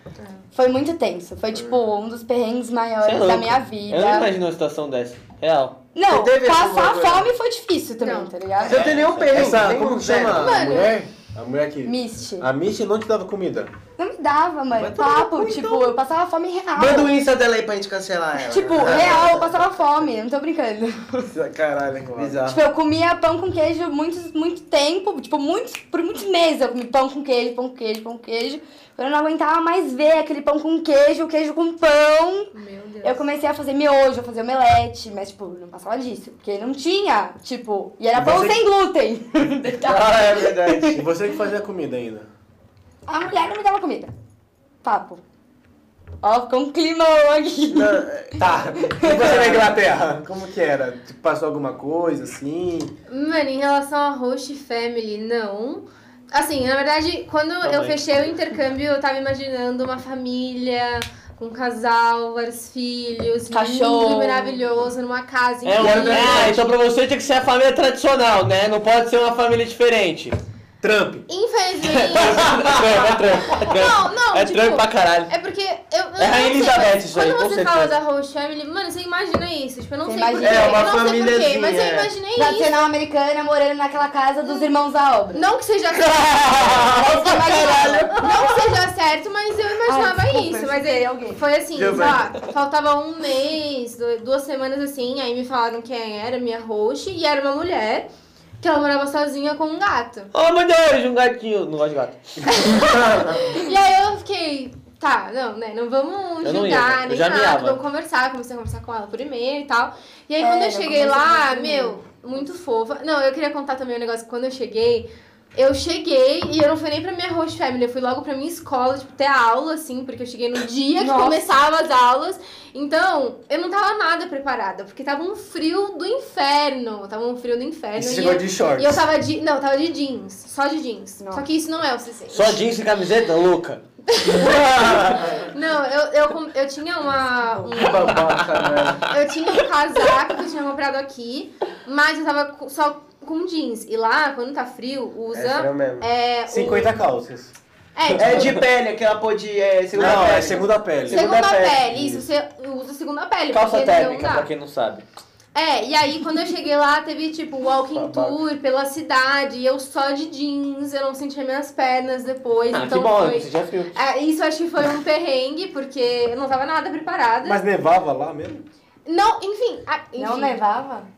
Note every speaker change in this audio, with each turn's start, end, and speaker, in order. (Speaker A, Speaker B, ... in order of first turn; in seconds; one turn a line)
Speaker A: 0.5-4.3
Speaker B: 3.0-5.9
Speaker A: 5.9-9.0
Speaker C: 6.1-7.3
Speaker D: 8.0-8.3
Speaker C: 8.6-10.8
Speaker B: 8.7-9.5
Speaker E: 9.3-13.7
Speaker D: 10.3-11.0
Speaker A: 11.8-12.5
Speaker A: 14.0-17.1
Speaker C: 14.8-15.8
Speaker C: 16.7-19.6
Speaker A: 18.4-21.3
Speaker C: 21.3-22.6
Speaker E: 22.1-22.4
Speaker A: 22.5-32.5
Speaker D: 32.5-33.2
Speaker A: 33.0-41.0
Speaker E: 38.1-38.6
Speaker C: 39.8-41.0
Speaker E: 40.9-42.3
Speaker A: 43.1-44.1
Speaker A: 44.8-45.2
Speaker A: 46.2-49.5
Speaker C: 47.7-48.5
Speaker E: 48.4-52.9
Speaker C: 49.1-49.6
Speaker D: 53.1-66.7
Speaker B: 57.6-58.1
Speaker A: 63.5-64.6
Speaker B: 65.6-70.4
Speaker C: 65.8-66.6
Speaker E: 65.8-66.5
Speaker E: 70.8-71.2
Speaker D: 71.3-82.8
Speaker B: 71.8-75.3
Speaker E: 72.4-73.1
Speaker B: 76.2-77.9
Speaker A: 80.0-80.9
Speaker C: 80.4-82.1
Speaker A: 82.3-85.4
Speaker D: 84.4-84.7
Speaker D: 85.3-98.1
Speaker B: 86.0-88.3
Speaker A: 86.8-88.6
Speaker A: 89.8-91.4
Speaker C: 91.7-92.3
Speaker D: 98.6-100.3
Speaker B: 100.3-102.6
Speaker D: 102.5-132.6
Speaker C: 102.7-103.5
Speaker B: 106.4-107.8
Speaker A: 110.4-112.0
Speaker A: 121.0-121.5
Speaker E: 128.0-129.1
Speaker A: 131.2-131.4
Speaker B: 132.3-135.3
Speaker D: 134.1-134.6
Speaker C: 135.1-135.4
Speaker D: 135.4-138.1
Speaker A: 137.3-137.9
Speaker C: 137.8-139.1
Speaker D: 139.0-147.0
Speaker C: 145.3-146.0
Speaker E: 146.5-147.5
Speaker D: 147.9-148.6
Speaker B: 148.1-148.5
Speaker C: 148.2-151.8
Speaker E: 149.9-151.3
Speaker B: 149.9-150.6
Speaker D: 151.1-154.5
Speaker E: 151.9-152.3
Speaker B: 153.5-155.0
Speaker D: 155.5-167.6
Speaker C: 157.9-158.4
Speaker B: 162.7-163.9
Speaker E: 167.4-168.6
Speaker D: 169.1-170.6
Speaker A: 170.2-171.1